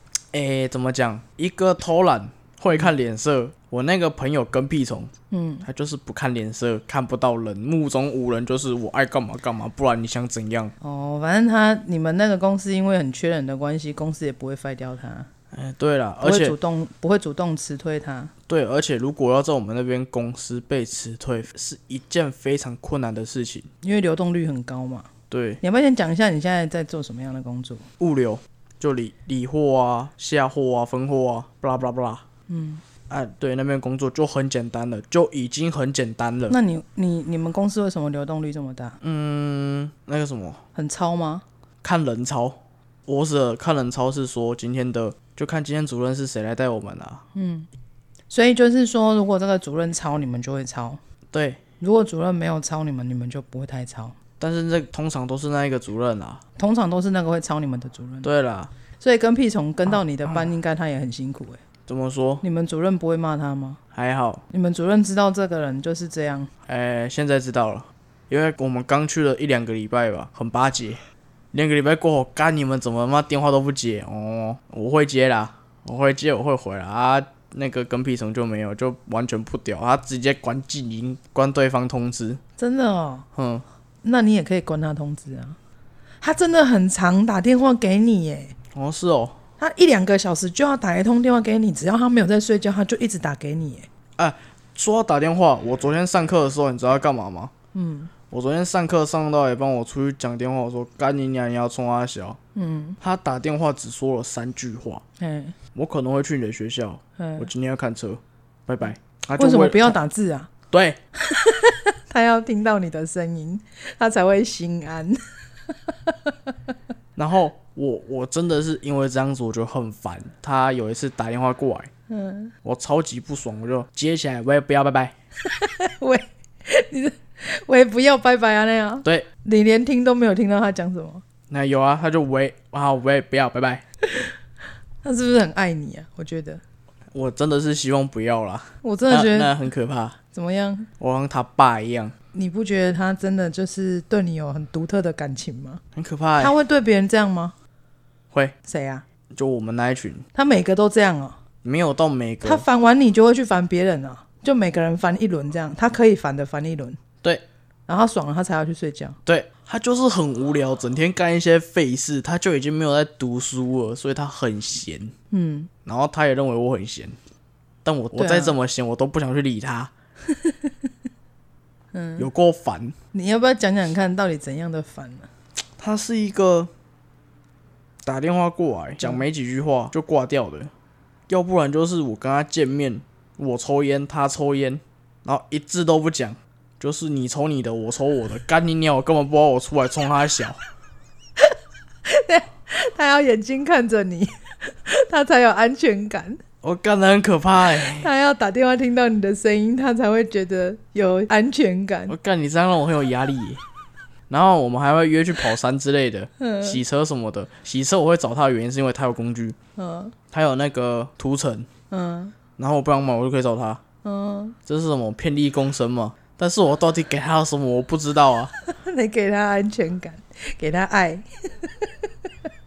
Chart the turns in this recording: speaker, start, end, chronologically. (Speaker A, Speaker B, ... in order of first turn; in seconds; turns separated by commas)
Speaker A: 0.3-5.1, Speaker B: 5.3-5.7, Speaker A: 5.6-10.7, Speaker B: 10.8-15.3, Speaker A: 15.5-16.6, Speaker B: 16.2-18.3, Speaker A: 18.5-23.7, Speaker B: 23.8-25.1, Speaker A: 25.3-25.6, Speaker B: 25.6-27.9, Speaker A: 28.0-32.2, Speaker B: 32.5-32.8, Speaker A: 33.1-36.5, Speaker B: 36.5-39.0, Speaker A: 39.0-40.6, Speaker B: 40.7-41.4, Speaker A: 41.8-47.2, Speaker B: 47.3-47.7, Speaker B: 48.3-51.0, Speaker A: 51.3-51.6, Speaker B: 51.8-54.2, Speaker A: 54.4-56.4, Speaker B: 56.6-58.3, Speaker A: 58.2-58.7, Speaker B: 59.0-61.6, Speaker A: 61.9-62.4, Speaker B: 62.4-63.8, Speaker A: 63.9-64.4, Speaker B: 64.5-66.5, Speaker A: 66.7-71.0, Speaker A: 71.5-82.4, Speaker B: 82.6-83.3, Speaker A: 83.3-83.6, Speaker B: 84.0-85.6, Speaker B: 86.2-88.6, Speaker A: 88.7-89.4, Speaker B: 89.6-93.9, Speaker A: 94.2-97.5, Speaker B: 97.7-98.1, Speaker A: 98.3-102.4, Speaker B: 102.5-103.0, Speaker A: 103.0-105.0, Speaker B: 105.2-105.5, Speaker A: 105.7-110.0, Speaker B: 107.2-107.5, Speaker B: 109.4-110.5, Speaker A: 110.7-111.0, Speaker B: 111.2-115.2, Speaker B: 115.9-116.3, Speaker A: 117.2-121.9, Speaker B: 122.1-122.5, Speaker A: 122.6-125.1, Speaker B: 125.5-131.2, Speaker A: 131.5-133.8, Speaker B: 135.0-136.6, Speaker A: 137.1-140.2, Speaker B: 138.8-139.5, Speaker B: 140.3-140.9, Speaker A: 141.0-142.1, Speaker B: 142.3-145.8, Speaker A: 145.9-146.5, Speaker B: 146.4-147.5, Speaker B: 148.7-149.1, Speaker A: 149.3-150.2, Speaker B: 150.3-151.4, Speaker A: 151.6-152.6, Speaker B: 152.4-157.0, Speaker B: 157.9-159.2, Speaker A: 159.2-165.1, Speaker B: 165.3-165.7, Speaker A: 165.8-167.2, Speaker A: 167.8-169.9, Speaker B: 168.1-168.5, Speaker B: 170.3-170.7, Speaker B: 171.9-172.3, Speaker A: 172.2-172.9, Speaker B: 173.1-175.3, Speaker A: 175.8-176.7, Speaker A: 178.0-180.7, Speaker A: 181.3-190.6, Speaker B: 192.1-196.4, Speaker A: 196.6-198.1, Speaker B: 197.6-202.1, Speaker A: 202.1-203.6, Speaker A: 204.3-209.6, Speaker B: 206.4-206.8, Speaker B: 209.8-210.1, Speaker A: 210.3-211.7, Speaker B: 211.9-212.3, Speaker A: 212.6-213.8, Speaker B: 214.0-214.6, Speaker A: 214.7-218.5, Speaker B: 218.6-221.9